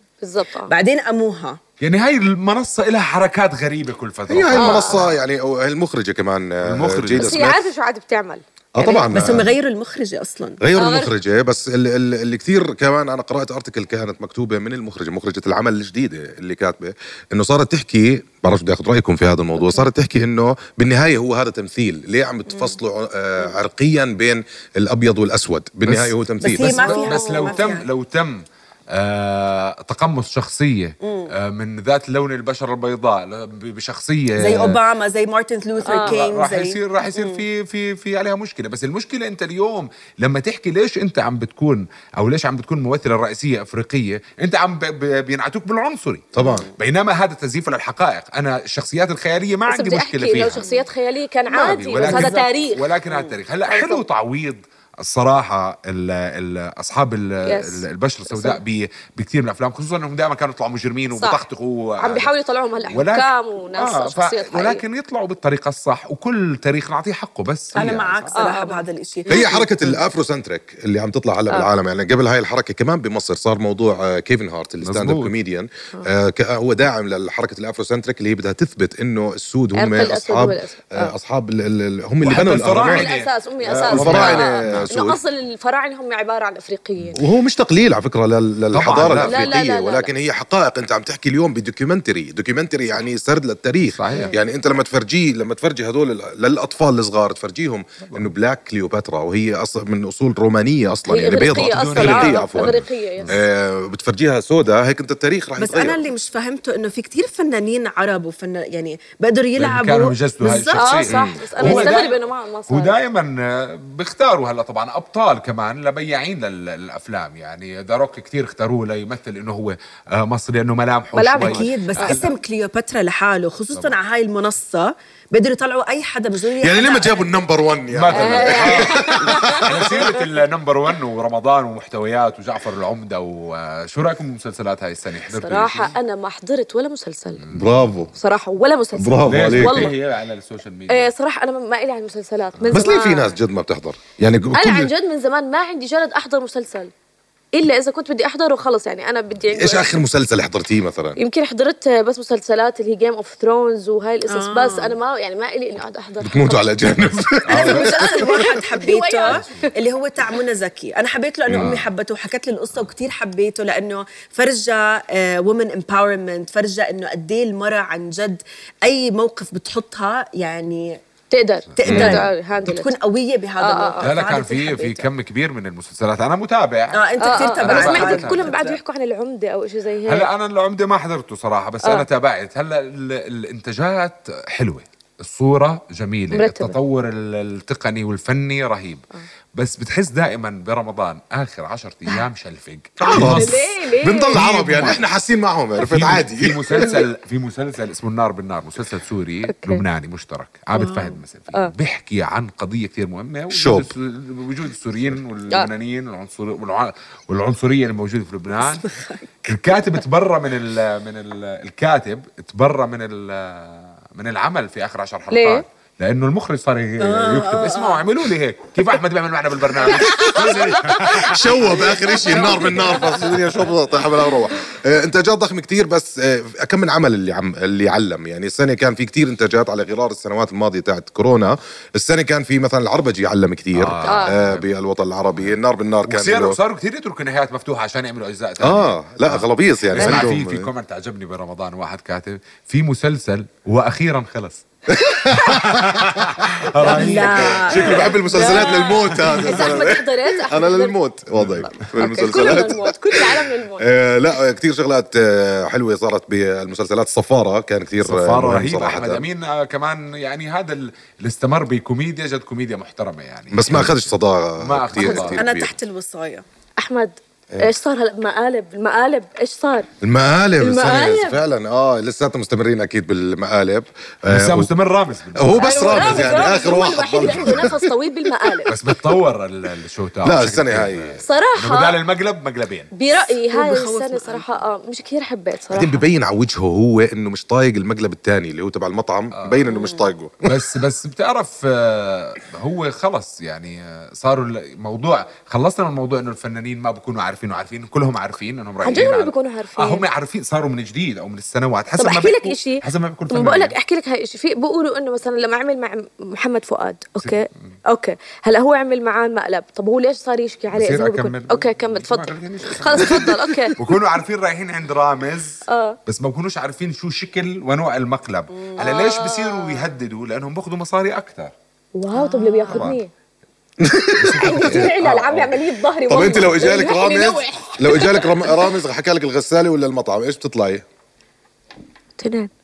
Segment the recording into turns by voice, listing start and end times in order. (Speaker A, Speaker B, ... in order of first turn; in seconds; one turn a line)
Speaker A: 0.2-0.7
Speaker B: 0.6-1.6
Speaker C: 1.8-5.2
Speaker D: 4.3-7.7
Speaker A: 4.5-5.0
Speaker C: 6.6-7.4
Speaker A: 7.1-9.1
Speaker D: 8.7-9.5
Speaker B: 9.1-10.6
Speaker D: 10.6-27.0
Speaker A: 10.7-11.1
Speaker C: 25.9-34.8
Speaker B: 26.4-27.9
Speaker A: 27.0-27.5
Speaker B: 31.0-31.3
Speaker B: 34.4-37.4
Speaker A: 35.8-36.2
Speaker C: 35.9-50.7
Speaker D: 46.3-46.7
Speaker B: 46.4-46.7
Speaker A: 49.7-52.8
Speaker B: 50.6-50.9
Speaker C: 51.5-62.3
Speaker B: 52.0-52.4
Speaker B: 53.1-53.4
Speaker A: 53.6-54.0
Speaker A: 57.4-58.6
Speaker A: 61.1-61.4
Speaker A: 62.0-64.8
Speaker C: 62.9-68.5
Speaker B: 67.7-70.0
Speaker A: 68.3-69.6
Speaker D: 69.3-83.1
Speaker C: 74.8-75.3
Speaker A: 79.7-81.1
Speaker C: 82.2-84.9
Speaker A: 82.8-87.2
Speaker D: 83.8-85.2
Speaker D: 87.1-106.0
Speaker C: 88.7-89.6
Speaker A: 89.1-90.1
Speaker C: 93.9-94.3
Speaker A: 94.1-94.4
Speaker C: 98.0-98.3
Speaker A: 101.1-103.3
Speaker C: 101.4-103.4
Speaker B: 105.6-111.0
Speaker C: 109.6-122.3
Speaker A: 110.7-113.0
Speaker D: 111.0-111.9
Speaker B: 111.6-111.9
Speaker A: 121.1-122.2
Speaker B: 121.4-127.3
Speaker D: 126.6-130.0
Speaker C: 127.9-135.9
Speaker A: 128.1-129.7
Speaker A: 135.3-137.4
Speaker C: 137.4-138.0
Speaker D: 137.5-138.1
Speaker A: 138.1-139.9
Speaker D: 138.9-139.9
Speaker C: 139.2-141.1
Speaker A: 140.9-143.3
Speaker C: 142.6-142.8
Speaker D: 142.7-144.9
Speaker A: 144.5-146.9
Speaker A: 147.5-150.0
Speaker D: 149.5-151.2
Speaker A: 151.2-156.7
Speaker B: 154.3-154.9
Speaker D: 156.2-157.9
Speaker C: 157.5-158.3
Speaker B: 157.5-171.0
Speaker A: 157.7-159.7
Speaker C: 159.2-159.7
Speaker D: 161.5-161.8
Speaker C: 161.5-161.8
Speaker A: 171.3-172.9
Speaker C: 171.8-172.1
Speaker B: 171.8-175.1
Speaker D: 171.8-172.2
Speaker A: 173.6-174.1
Speaker C: 174.0-178.6
Speaker B: 176.9-178.8
Speaker A: 177.2-180.3
Speaker C: 180.1-195.0
Speaker A: 186.3-186.8
Speaker D: 193.0-197.0
Speaker A: 193.2-194.4
Speaker C: 195.8-208.9
Speaker A: 196.7-197.0
Speaker A: 199.4-199.8
Speaker B: 200.7-201.1
Speaker D: 203.5-203.9
Speaker B: 208.6-209.2
Speaker C: 209.4-223.4
Speaker A: 215.3-215.6
Speaker B: 217.0-217.9
Speaker D: 219.9-236.6
Speaker A: 222.4-223.1
Speaker C: 233.7-234.7
Speaker A: 234.0-234.4
Speaker C: 235.3-249.6
Speaker D: 238.6-240.7
Speaker D: 244.9-259.2
Speaker B: 246.8-248.8
Speaker A: 248.3-251.0
Speaker C: 251.3-252.3
Speaker A: 251.8-253.9
Speaker C: 258.0-265.4
Speaker D: 263.5-265.7
Speaker A: 265.0-265.3
Speaker B: 265.1-266.4
Speaker A: 266.8-269.9
Speaker D: 270.0-274.7
Speaker A: 270.6-271.4
Speaker C: 274.3-277.6
Speaker D: 275.4-277.8
Speaker A: 275.6-278.7
Speaker C: 278.7-282.9
Speaker D: 280.2-281.2
Speaker A: 281.2-281.9
Speaker A: 282.9-286.1
Speaker B: 283.1-284.6
Speaker D: 285.7-290.6
Speaker C: 289.4-289.7
Speaker B: 289.7-290.1
Speaker C: 290.4-303.8
Speaker A: 298.8-300.1
Speaker A: 302.0-313.7
Speaker C: 310.7-321.5
Speaker A: 315.7-316.0
Speaker A: 318.7-319.9
Speaker A: 321.9-323.1
Speaker B: 322.1-322.9
Speaker C: 322.6-323.0
Speaker D: 323.8-325.0
Speaker C: 324.2-326.7
Speaker A: 324.4-328.7
Speaker D: 326.1-330.8
Speaker A: 332.2-332.5